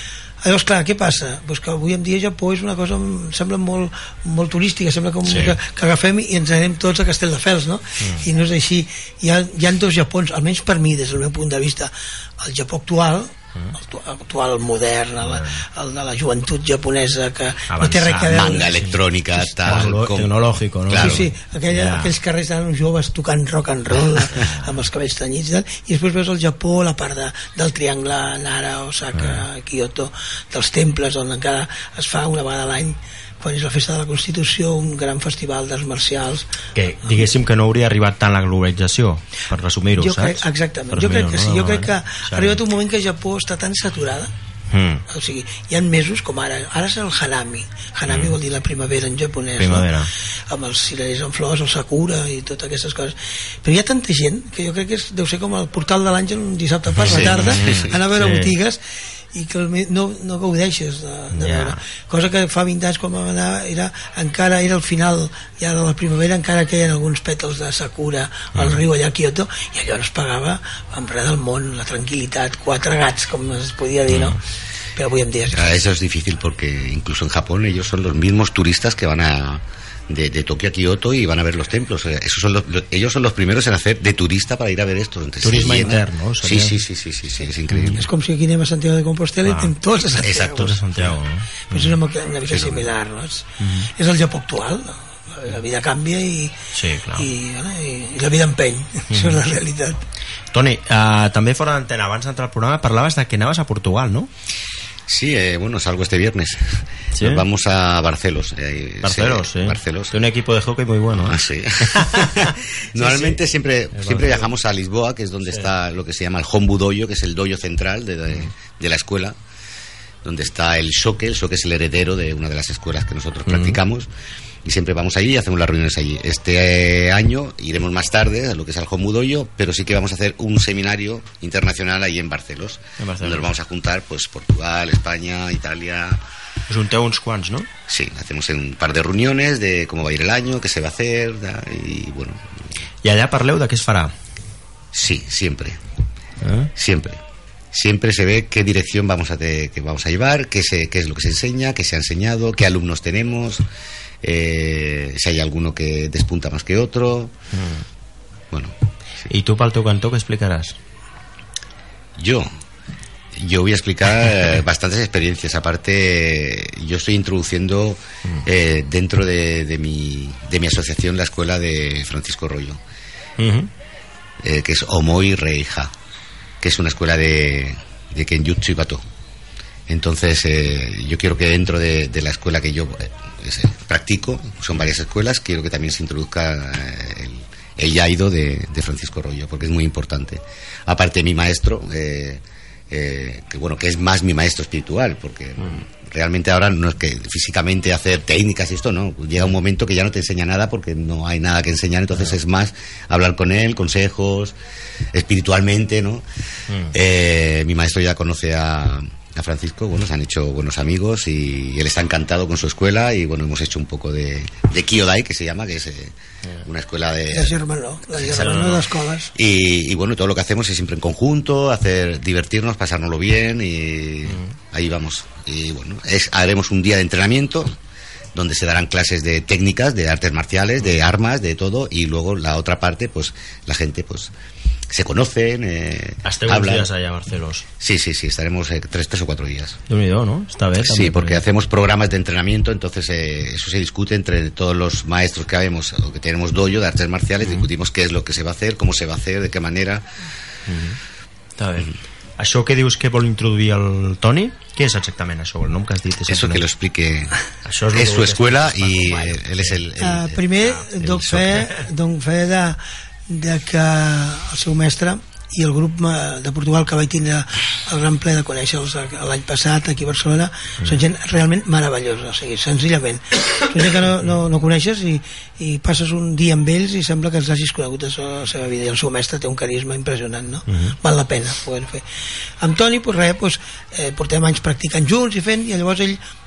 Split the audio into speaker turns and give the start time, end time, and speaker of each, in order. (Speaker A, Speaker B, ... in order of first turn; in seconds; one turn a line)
Speaker A: 0.4-18.7
Speaker B: 5.2-5.5
Speaker B: 8.0-8.2
Speaker B: 15.2-15.6
Speaker B: 17.7-22.1
Speaker C: 18.3-21.2
Speaker A: 21.0-36.5
Speaker B: 24.3-24.7
Speaker B: 29.1-29.4
Speaker B: 36.7-42.6
Speaker A: 40.0-44.3
Speaker B: 44.7-45.0
Speaker A: 45.1-49.9
Speaker B: 48.1-48.4
Speaker B: 49.5-50.1
Speaker A: 50.5-58.8
Speaker B: 56.9-58.5
Speaker C: 57.1-57.9
Speaker A: 59.3-74.4
Speaker B: 61.3-61.8
Speaker B: 68.5-68.8
Speaker B: 74.1-74.4
Speaker A: 75.0-75.6
Speaker C: 75.5-88.0
Speaker B: 85.4-86.8
Speaker B: 87.7-88.0
Speaker A: 87.9-90.7
Speaker B: 89.4-89.7
Speaker C: 90.2-90.7
Speaker B: 90.3-92.0
Speaker A: 91.7-96.5
Speaker C: 92.5-92.8
Speaker B: 93.6-93.9
Speaker B: 96.7-97.3
Speaker A: 97.2-100.0
Speaker B: 99.1-99.4
Speaker B: 100.5-104.3
Speaker C: 105.1-110.2
Speaker B: 107.1-107.4
Speaker B: 109.0-113.4
Speaker C: 111.2-119.3
Speaker B: 113.9-114.5
Speaker C: 120.2-124.1
Speaker B: 123.5-123.8
Speaker C: 124.6-136.2
Speaker B: 133.0-133.5
Speaker B: 136.7-137.7
Speaker C: 137.9-142.4
Speaker B: 143.0-144.1
Speaker C: 144.9-145.8
Speaker B: 146.4-146.7
Speaker C: 146.8-147.2
Speaker C: 147.7-153.6
Speaker C: 154.2-157.3
Speaker B: 157.5-157.8
Speaker C: 158.5-159.3
Speaker B: 159.3-160.8
Speaker C: 162.2-162.5
Speaker C: 163.3-172.8
Speaker B: 173.4-173.7
Speaker C: 174.4-175.9
Speaker C: 176.6-179.0
Speaker C: 179.9-204.5
Speaker C: 205.1-206.2
Speaker C: 206.9-217.6
Speaker A: 217.3-219.3
Speaker B: 218.2-218.8
Speaker C: 218.2-218.7
Speaker C: 219.3-227.8
Speaker B: 224.3-224.5
Speaker C: 228.3-234.3
Speaker C: 234.9-236.9
Speaker B: 236.2-237.7
Speaker C: 237.8-239.8
Speaker B: 239.9-241.4
Speaker C: 240.8-250.1
Speaker B: 247.4-247.7
Speaker B: 250.7-251.0
Speaker B: 251.6-256.6
Speaker C: 256.3-257.4
Speaker B: 257.6-259.8
Speaker C: 257.9-260.4
Speaker A: 260.0-282.0
Speaker B: 260.6-261.7
Speaker C: 261.0-261.5
Speaker B: 280.7-280.9
Speaker A: 282.6-286.2